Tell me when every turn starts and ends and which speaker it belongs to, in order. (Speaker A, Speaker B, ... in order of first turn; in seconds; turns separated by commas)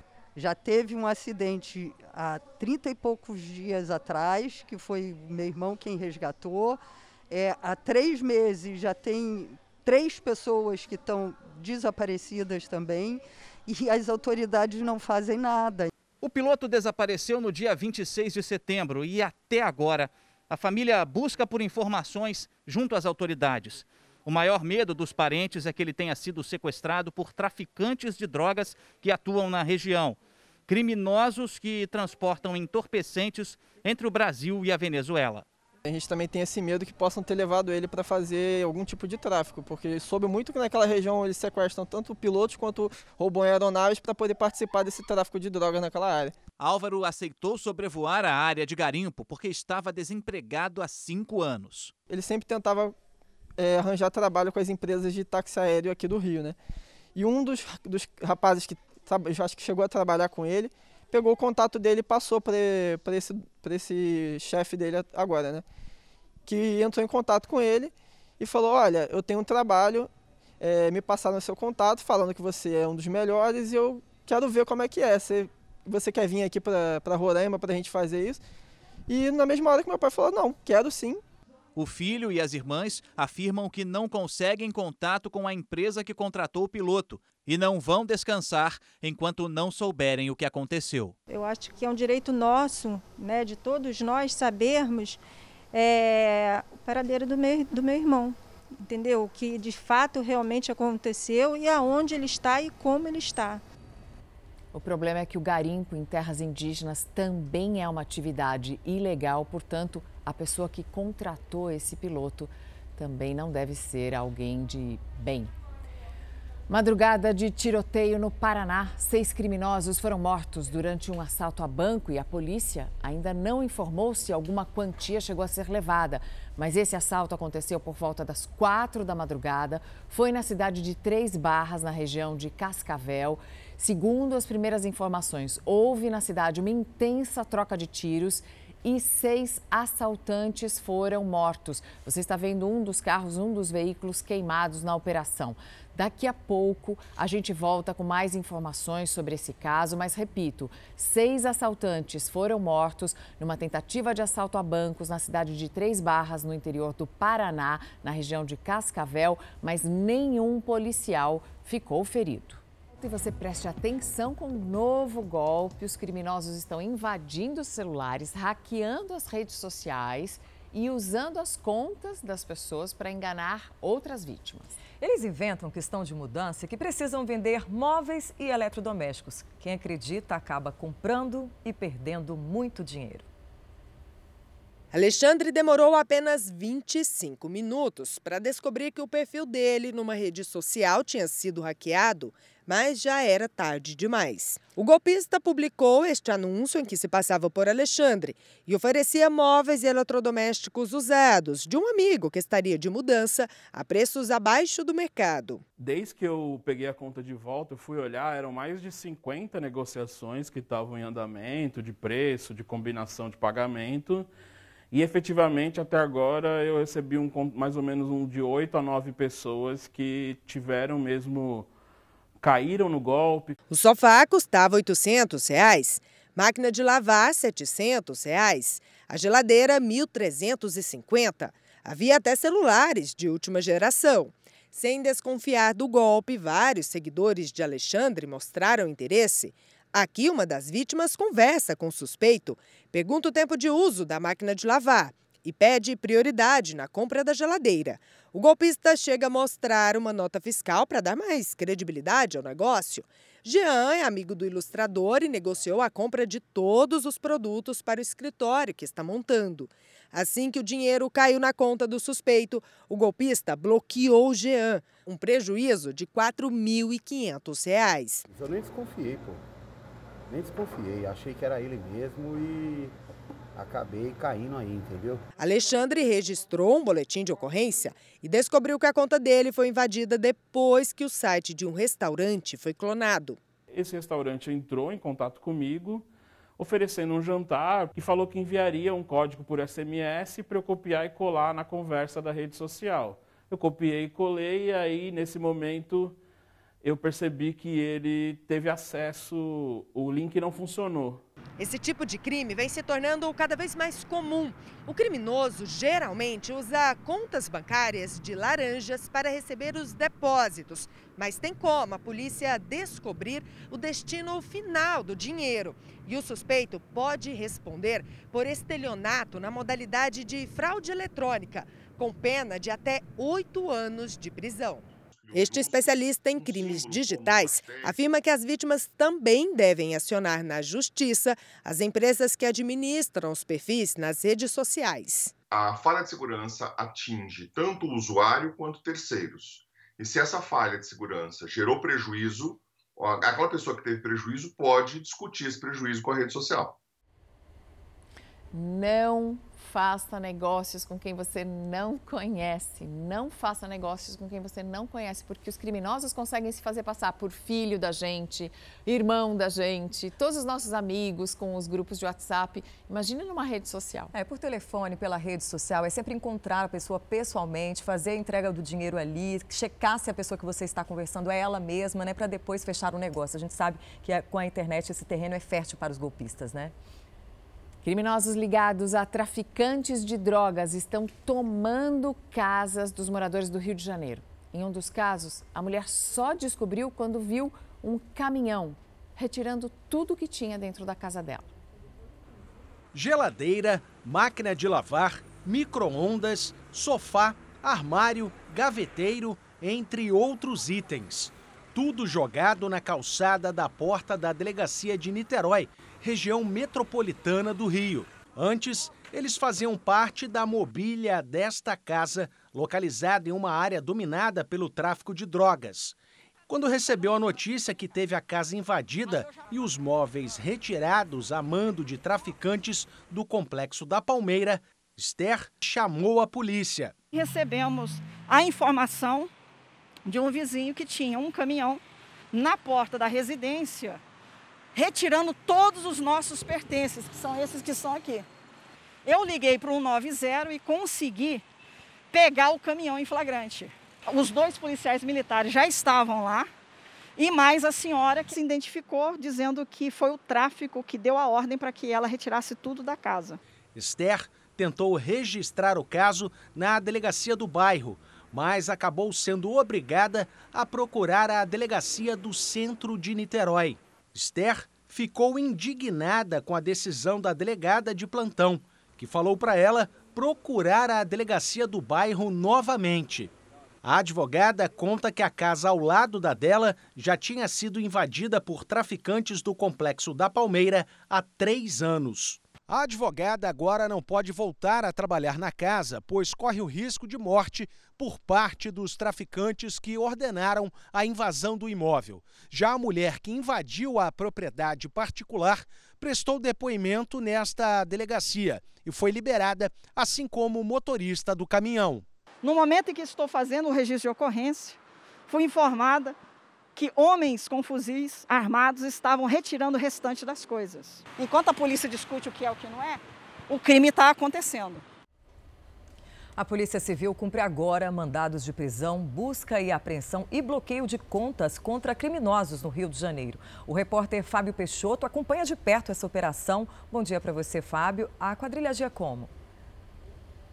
Speaker A: 0.4-15.9, Speaker B: 16.2-19.8, Speaker B: 22.4-22.8, Speaker B: 23.4-23.7, Speaker B: 25.2-26.2, Speaker B: 33.6-33.9, Speaker C: 35.8-46.4, Speaker B: 46.6-51.9, Speaker C: 52.1-53.0, Speaker C: 53.6-56.6, Speaker C: 57.2-65.6, Speaker C: 66.5-78.4, Speaker C: 79.1-81.2, Speaker B: 81.8-91.2, Speaker D: 91.3-95.2, Speaker D: 95.7-103.6, Speaker E: 104.7-115.5, Speaker E: 116.7-174.8, Speaker F: 175.0-183.3, Speaker G: 184.9-205.6, Speaker H: 205.8-214.3, Speaker H: 214.9-221.7, Speaker H: 222.4-223.6, Speaker G: 223.7-268.2, Speaker I: 268.3-269.4, Speaker I: 270.3-272.9, Speaker I: 273.6-275.3, Speaker G: 275.4-283.4, Speaker H: 283.7-296.2, Speaker H: 296.8-301.2, Speaker G: 301.6-335.3, Speaker J: 325.2-327.9, Speaker J: 335.5-346.7, Speaker E: 348.5-364.1, Speaker F: 364.1-376.7, Speaker E: 377.8-391.6, Speaker K: 392.9-416.0, Speaker K: 416.5-426.9, Speaker L: 427.1-429.3, Speaker L: 430.1-431.8, Speaker L: 432.3-434.0, Speaker L: 434.8-438.2, Speaker L: 439.1-441.4, Speaker L: 442.1-446.5, Speaker L: 447.2-453.3, Speaker D: 449.8-450.4, Speaker K: 453.8-473.3, Speaker K: 473.8-502.0, Speaker L: 502.4-504.8, Speaker L: 505.3-506.1, Speaker L: 506.8-513.0, Speaker L: 513.5-514.8, Speaker F: 516.4-529.3